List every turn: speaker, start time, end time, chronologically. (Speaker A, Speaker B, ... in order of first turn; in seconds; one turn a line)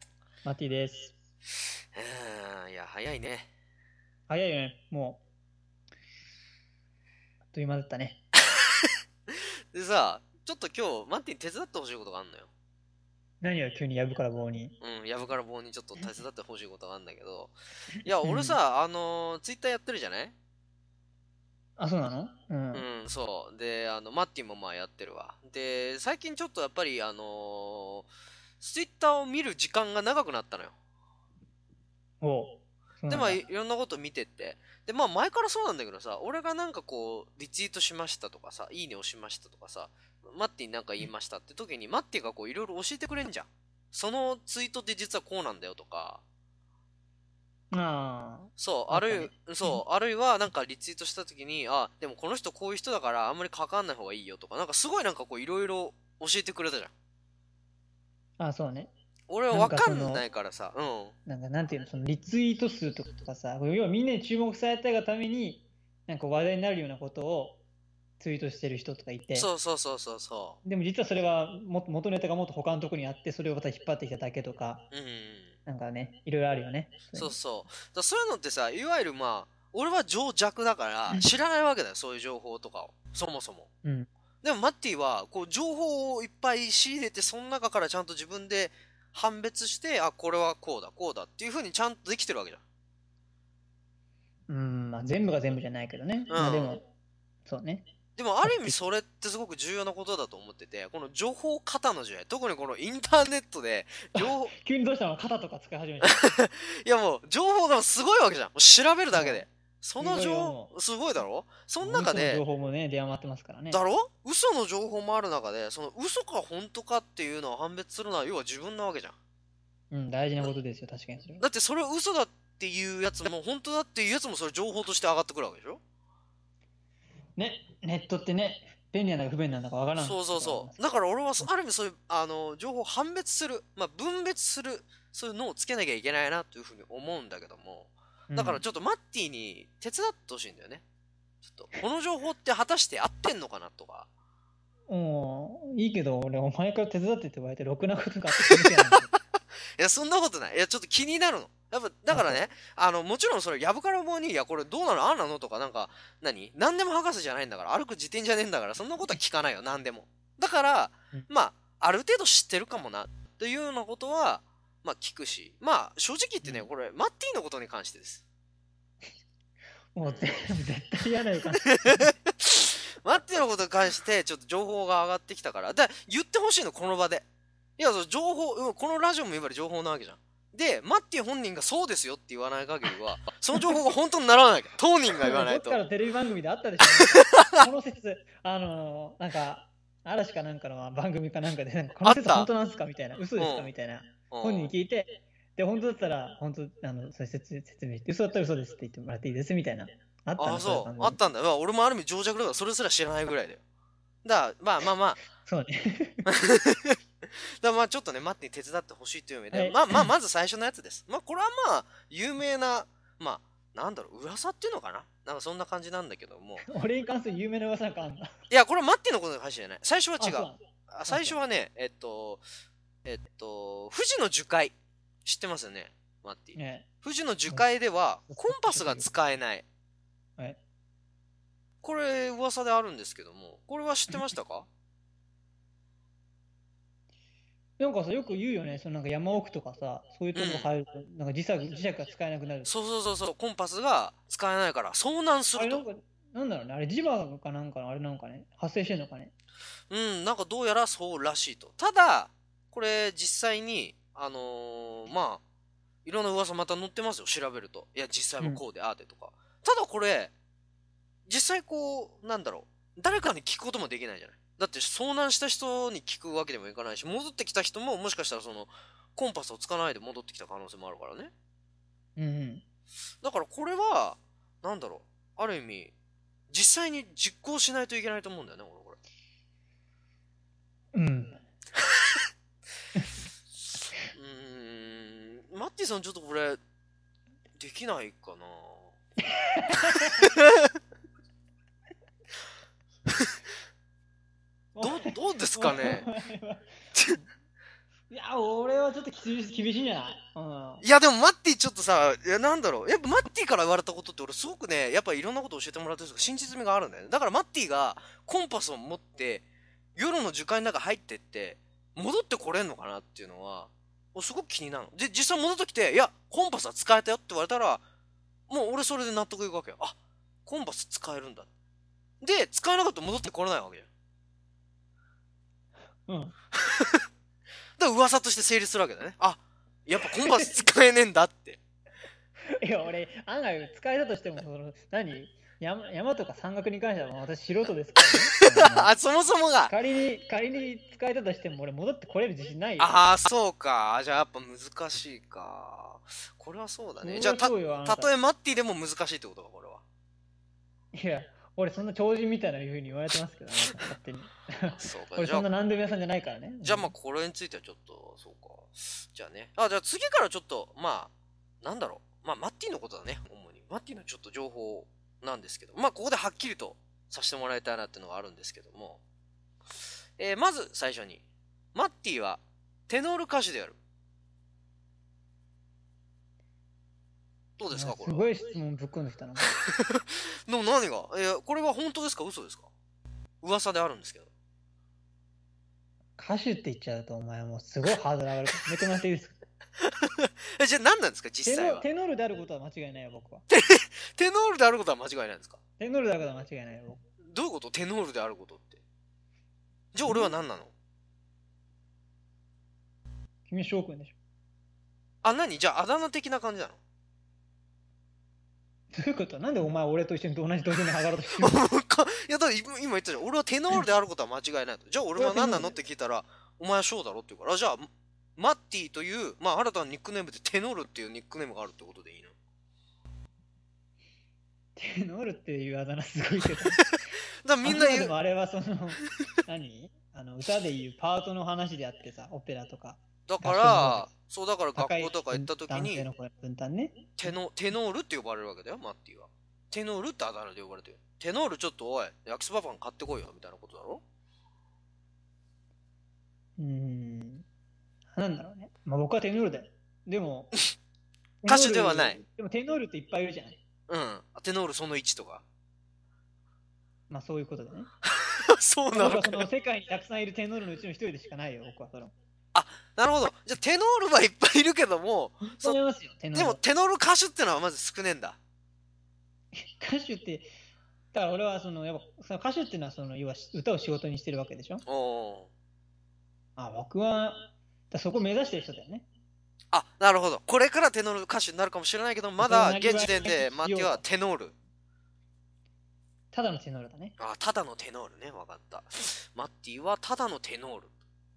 Speaker A: 0.4-1.1
Speaker B: 1.9-3.5
Speaker A: 4.3-5.2
Speaker A: 7.5-8.2
Speaker B: 9.3-12.5
Speaker A: 13.4-14.8
Speaker B: 14.8-20.3
Speaker A: 18.2-18.6
Speaker A: 21.8-22.9
Speaker B: 22.7-30.7
Speaker A: 32.2-33.4
Speaker B: 33.1-46.2
Speaker A: 47.7-49.8
Speaker B: 48.6-56.9
Speaker A: 58.4-58.9
Speaker B: 59.3-61.1
Speaker A: 59.5-60.2
Speaker A: 61.3-67.6
Speaker A: 68.2-69.5
Speaker B: 69.3-70.6
Speaker A: 70.6-74.9
Speaker B: 74.9-75.5
Speaker A: 75.7-77.4
Speaker B: 77.2-83.7
Speaker A: 83.8-84.1
Speaker B: 84.4-92.6
Speaker A: 94.5-96.8
Speaker B: 96.3-96.8
Speaker A: 97.5-97.9
Speaker B: 98.2-104.5
Speaker A: 98.4-98.8
Speaker A: 104.2-106.2
Speaker B: 106.0-112.4
Speaker A: 109.1-109.4
Speaker A: 110.0-110.7
Speaker A: 111.8-113.8
Speaker B: 113.7-119.2
Speaker A: 119.9-121.4
Speaker B: 121.4-125.8
Speaker A: 127.4-130.8
Speaker B: 129.9-140.8
Speaker A: 138.3-138.6
Speaker B: 141.4-144.1
Speaker A: 144.9-149.1
Speaker B: 148.4-149.0
Speaker B: 149.8-168.2
Speaker A: 152.1-152.4
Speaker A: 169.9-172.1
Speaker B: 170.0-170.4
Speaker B: 171.7-177.2
Speaker B: 177.8-185.8
Speaker A: 185.2-201.2
Speaker B: 187.1-187.7
Speaker B: 192.0-192.5
Speaker B: 193.4-193.7
Speaker B: 194.3-194.7
Speaker B: 200.4-203.6
Speaker B: 204.2-205.2
Speaker A: 205.4-206.3
Speaker B: 206.3-216.7
Speaker A: 209.5-210.1
Speaker A: 216.6-218.3
Speaker B: 218.5-222.4
Speaker A: 220.2-221.4
Speaker B: 223.1-224.7
Speaker B: 225.2-229.6
Speaker A: 226.6-226.9
Speaker A: 228.3-229.1
Speaker B: 231.8-234.7
Speaker A: 237.8-242.7
Speaker B: 240.3-240.7
Speaker B: 242.6-245.8
Speaker A: 245.6-249.3
Speaker B: 249.9-255.4
Speaker B: 256.1-260.3
Speaker B: 261.3-271.3
Speaker A: 272.2-272.6
Speaker B: 273.2-275.9
Speaker B: 276.5-279.0
Speaker A: 280.9-281.4
Speaker B: 284.1-286.6
Speaker B: 287.6-288.9
Speaker A: 289.4-290.3
Speaker A: 294.8-297.3
Speaker B: 294.8-296.1
Speaker A: 298.1-300.8
Speaker B: 300.8-317.8
Speaker B: 318.5-321.5
Speaker B: 322.2-323.9
Speaker A: 326.1-326.3
Speaker B: 326.6-327.0
Speaker B: 327.8-331.6
Speaker A: 330.2-330.6
Speaker A: 332.5-338.9
Speaker B: 338.0-339.7
Speaker A: 339.7-342.9
Speaker B: 342.8-349.8
Speaker A: 347.0-348.1
Speaker A: 350.9-356.9
Speaker B: 354.7-355.5
Speaker B: 356.6-369.0
Speaker B: 370.2-371.2
Speaker B: 371.7-373.8
Speaker B: 377.6-378.3
Speaker A: 377.7-379.5
Speaker B: 379.7-382.7
Speaker B: 383.4-384.3
Speaker A: 386.2-389.4
Speaker B: 389.8-391.9
Speaker A: 391.4-393.4
Speaker B: 393.5-395.6
Speaker A: 395.8-397.0
Speaker B: 397.2-398.8
Speaker B: 399.9-400.7
Speaker A: 400.1-400.3
Speaker A: 403.5-404.1
Speaker B: 405.2-406.8
Speaker A: 408.9-411.6
Speaker B: 411.4-422.3
Speaker A: 415.2-415.8
Speaker A: 424.8-426.8
Speaker B: 427.4-428.1
Speaker A: 427.6-434.1
Speaker B: 433.3-436.1
Speaker A: 434.8-437.4
Speaker B: 437.2-444.0
Speaker A: 446.6-447.4
Speaker A: 448.1-450.5
Speaker A: 451.4-453.6
Speaker B: 451.4-452.2
Speaker B: 453.9-455.4
Speaker A: 457.1-457.9
Speaker B: 458.1-459.5
Speaker A: 458.9-462.1
Speaker B: 462.5-465.8
Speaker A: 465.4-466.6
Speaker B: 466.3-468.4
Speaker A: 469.6-470.5
Speaker A: 471.1-474.8
Speaker B: 474.9-475.5
Speaker A: 476.6-479.1
Speaker B: 479.7-484.5
Speaker A: 482.4-484.0
Speaker A: 486.3-487.1
Speaker B: 487.2-490.9